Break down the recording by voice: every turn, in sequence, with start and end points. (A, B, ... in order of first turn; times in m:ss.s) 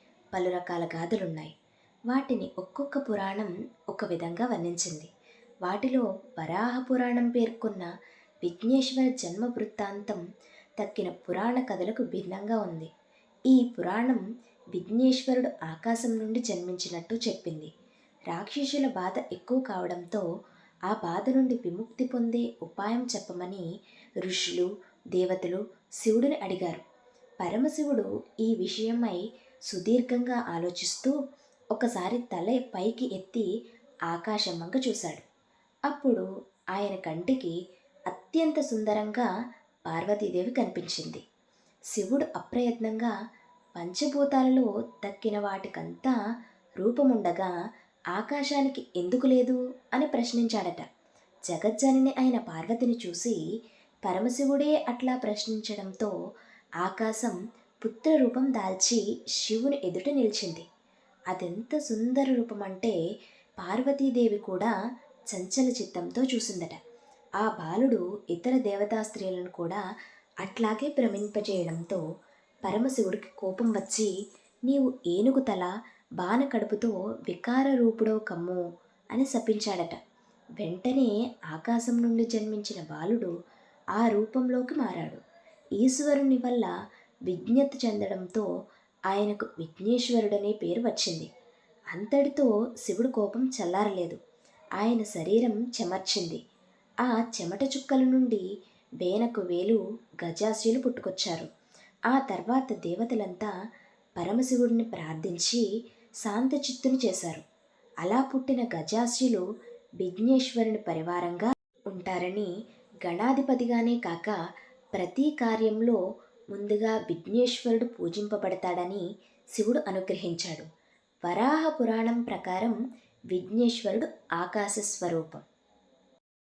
0:00.3-0:01.5 A
0:02.1-0:05.1 A
0:05.6-0:07.9 A
0:08.4-0:10.2 A
0:10.8-0:12.9 A
0:13.5-0:14.2 A
0:14.7-0:17.7 A
0:18.3-0:20.2 A
0:20.9-0:23.7 A
0:24.2-0:26.8 A
0:27.4-0:31.2 A
0:31.7-0:33.5 A
0:34.1-0:35.2 A
0:35.9-0:37.5 A
0:38.1-0:39.3 A
0:39.9-0:41.2 A
0:41.9-0:43.1 A
0:43.8-0:46.2 A
0:46.8-0:47.5 A
0:48.2-0:50.9 A
0:51.5-0:53.4 A
0:54.0-0:56.1 A
0:56.8-1:00.6 A
1:01.3-1:03.0 A
1:03.6-1:04.7 A
1:05.3-1:06.8 A
1:07.4-1:09.8 A
1:10.4-1:12.0 A
1:12.6-1:14.1 A
1:14.7-1:15.7 A
1:16.2-1:20.0 A
1:20.6-1:23.3 A
1:24.0-1:25.2 A
1:25.8-1:26.7 A
1:27.3-1:28.5 A
1:29.1-1:31.3 A
1:31.9-1:34.2 A
1:34.8-1:36.4 A
1:37.0-1:38.4 A
1:39.0-1:41.5 A
1:42.1-1:43.5 A
1:44.2-1:45.7 A
1:46.2-1:47.4 A
1:48.0-1:49.4 A
1:50.0-1:52.5 A
1:53.0-1:54.4 A
1:55.0-1:56.0 A
1:56.5-1:59.0 A
1:59.6-2:00.7 A
2:01.2-2:02.8 A
2:03.3-2:05.4 A